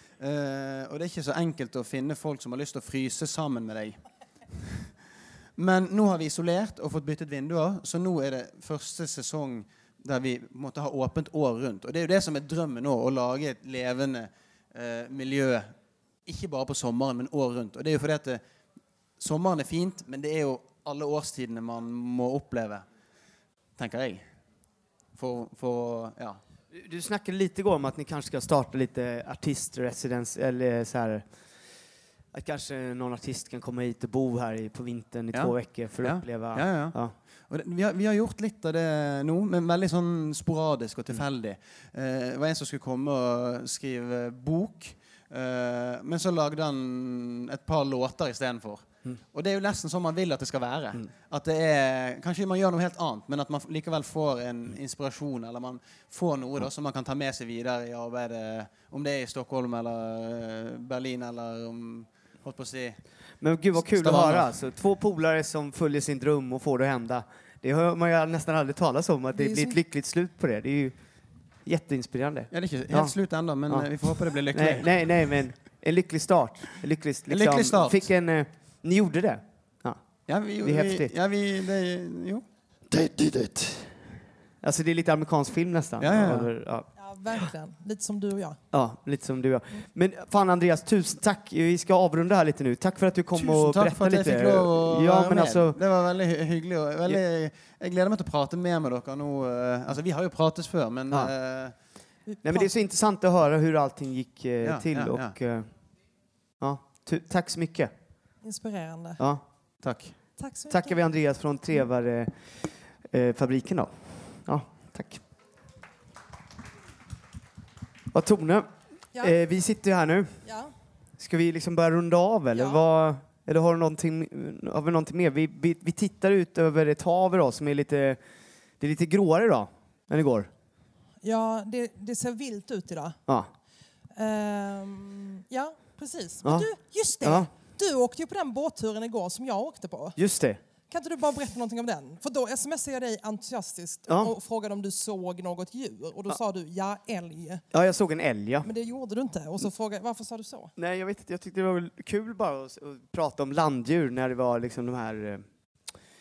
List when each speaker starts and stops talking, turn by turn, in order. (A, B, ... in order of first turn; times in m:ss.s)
0:00.2-0:04.0 A
0:04.5-0:04.9 A
0:05.6-0:15.7 A
0:16.3-0:18.4 A
0:19.2-0:22.8 A
0:23.8-0:24.2 A
0:25.2-0:26.4 A
0:26.7-0:31.2 B
0:32.3-0:37.1 B
0:35.3-0:37.0 A
0:37.5-1:03.0 A
1:03.4-1:11.0 B
1:03.9-1:04.5 A
1:09.3-1:09.8 C
1:11.7-1:13.2 B
1:12.5-1:15.3 A
1:14.5-1:20.0 B
1:17.3-1:18.1 A
1:20.3-1:22.4 A
1:20.6-1:21.1 B
1:22.9-1:23.9 B
1:24.6-1:26.9 B
1:26.0-1:26.5 A
1:27.0-1:28.6 C
1:28.7-1:35.8 B
1:33.4-1:41.7 A
1:42.3-1:42.7 C
1:42.4-1:45.7 B
1:44.6-1:45.3 A
1:46.6-1:47.9 B
1:48.4-1:49.2 C
1:49.8-1:50.1 A
1:50.4-1:51.0 C
1:50.7-1:52.6 B
1:53.1-1:55.2 B
1:58.1-1:58.7 B
1:59.2-2:00.4 B
2:00.4-2:00.7 C
2:01.2-2:08.2 B
2:02.6-2:02.8 C
2:08.8-2:10.5 B
2:11.2-2:13.2 C
2:14.2-2:20.2 C
2:16.4-2:16.7 B
2:17.2-2:17.5 B
2:20.2-2:20.6 B
2:20.9-2:27.6 C
2:24.1-2:24.3 B
2:27.7-2:28.7 B
2:28.6-2:30.7 C
2:30.8-2:35.4 B